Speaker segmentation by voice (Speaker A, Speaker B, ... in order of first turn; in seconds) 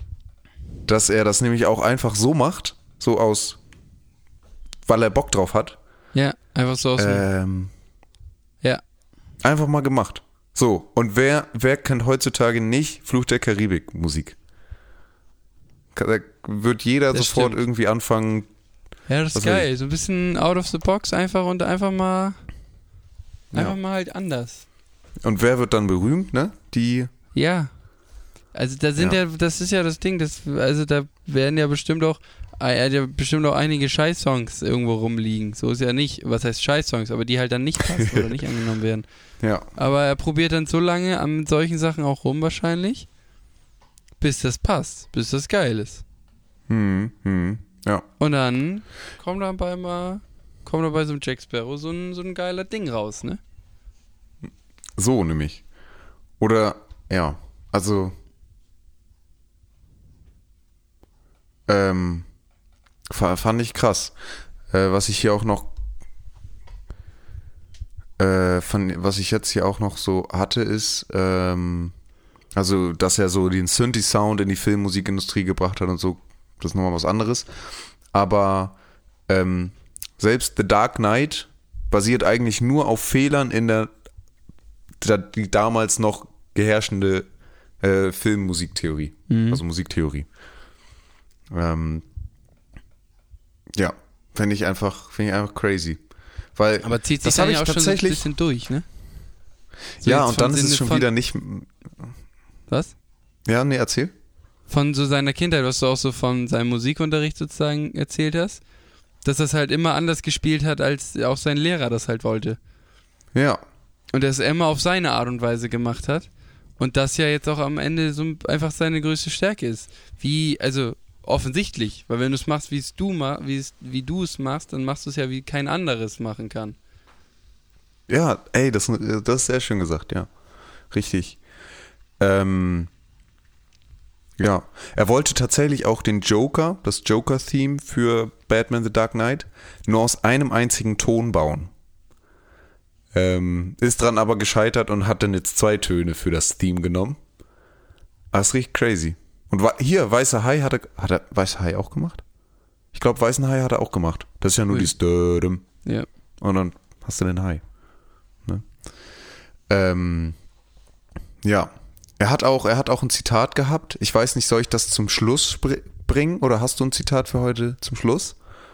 Speaker A: 0.9-3.6, 4.9-5.8, 7.0-7.7, 9.4-14.4, 15.9-18.5, 19.4-19.7, 23.5-23.8, 25.2-27.1, 37.9-38.3, 39.4-39.7, 46.7-48.1, 55.0-55.6, 56.4-58.2, 61.7-62.3, 63.1-64.2, 64.7-65.7, 68.2-71.9, 72.5-77.5, 78.1-78.8, 79.3-83.9, 85.0-87.3, 87.8-90.3, 91.5-92.0, 93.7-96.0, 96.5-98.2, 100.0-102.1, 103.5-104.1, 113.3-113.6, 128.1-130.3, 130.9-131.4, 132.2-132.9, 134.4-141.7, 143.1-147.2, 148.3-152.2, 152.9-155.7, 156.4-157.6, 159.7-160.4, 161.4-168.4
Speaker B: 6.1-7.2, 17.1-17.6, 19.1-22.4, 23.5-24.7, 27.3-27.7, 28.5-39.1, 39.8-43.1, 44.2-46.0, 48.2-53.4, 89.3-89.6, 96.8-98.9, 100.0-101.1, 102.7-102.9, 104.7-108.6, 109.2-112.6, 114.1-126.8